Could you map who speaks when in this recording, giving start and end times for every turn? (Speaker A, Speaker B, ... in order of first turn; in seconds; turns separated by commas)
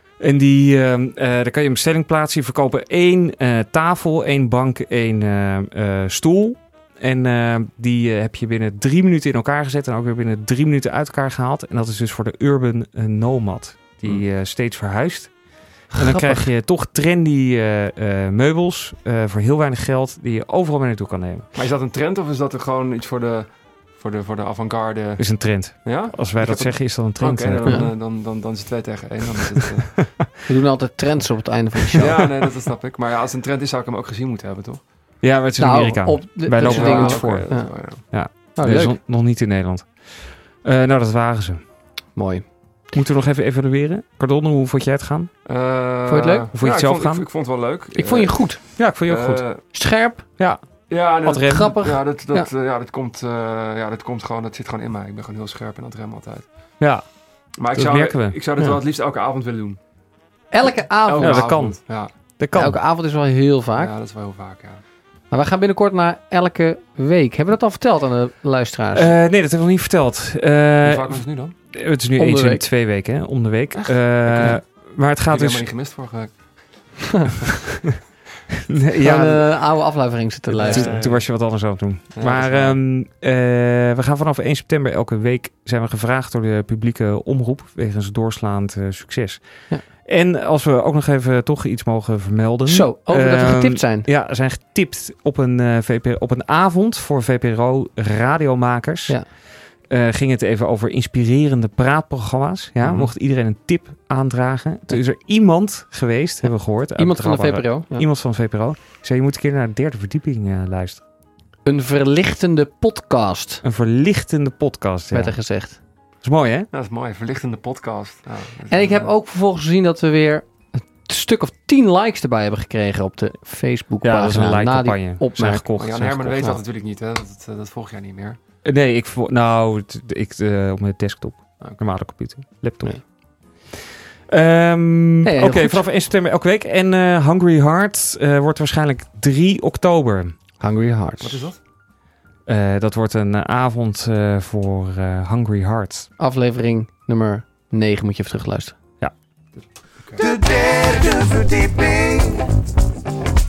Speaker A: 0.2-15.3, Speaker A: 15.9-21.5, Speaker B: 15.9-16.5, Speaker C: 21.6-25.2, Speaker A: 25.2-27.9, Speaker C: 25.8-30.1, Speaker B: 30.5-32.2, Speaker C: 32.0-34.8, Speaker A: 35.2-41.6, Speaker B: 35.6-37.7, Speaker C: 36.6-38.0, Speaker B: 38.3-39.0, Speaker B: 42.2-42.5, Speaker A: 42.9-45.3, Speaker C: 45.5-48.5, Speaker B: 46.1-46.5, Speaker A: 46.5-47.3, Speaker B: 48.0-48.8, Speaker A: 48.8-49.7, Speaker C: 49.1-49.6, Speaker B: 49.7-50.3, Speaker A: 50.4-50.6, Speaker C: 50.9-56.5, Speaker A: 51.2-51.8, Speaker B: 51.4-52.5, Speaker A: 56.8-57.1, Speaker C: 57.6-59.8, Speaker A: 57.7-58.6, Speaker B: 60.5-61.5, Speaker C: 61.1-62.1, Speaker A: 61.2-62.8, Speaker B: 62.5-63.9, Speaker C: 63.8-64.8, Speaker B: 65.3-69.2, Speaker A: 68.9-75.7, Speaker C: 70.8-71.5, Speaker B: 72.2-72.7, Speaker C: 74.2-74.6, Speaker C: 75.3-76.9, Speaker A: 78.7-79.5, Speaker B: 79.0-81.0, Speaker C: 80.5-81.3, Speaker A: 80.6-99.2, Speaker C: 82.2-82.8, Speaker B: 92.7-94.1, Speaker A: 99.9-111.0, Speaker C: 102.8-103.1, Speaker B: 107.0-108.1, Speaker B: 111.7-113.6, Speaker A: 113.6-115.4, Speaker B: 115.1-115.8, Speaker A: 116.2-116.7, Speaker C: 116.7-119.1, Speaker B: 118.7-125.6, Speaker A: 124.0-126.6, Speaker C: 125.8-128.4, Speaker A: 128.7-133.0, Speaker A: 134.3-140.3, Speaker B: 135.2-135.8, Speaker B: 140.6-141.4, Speaker C: 141.2-141.6, Speaker A: 142.5-146.1, Speaker B: 146.2-148.8, Speaker D: 150.2-152.5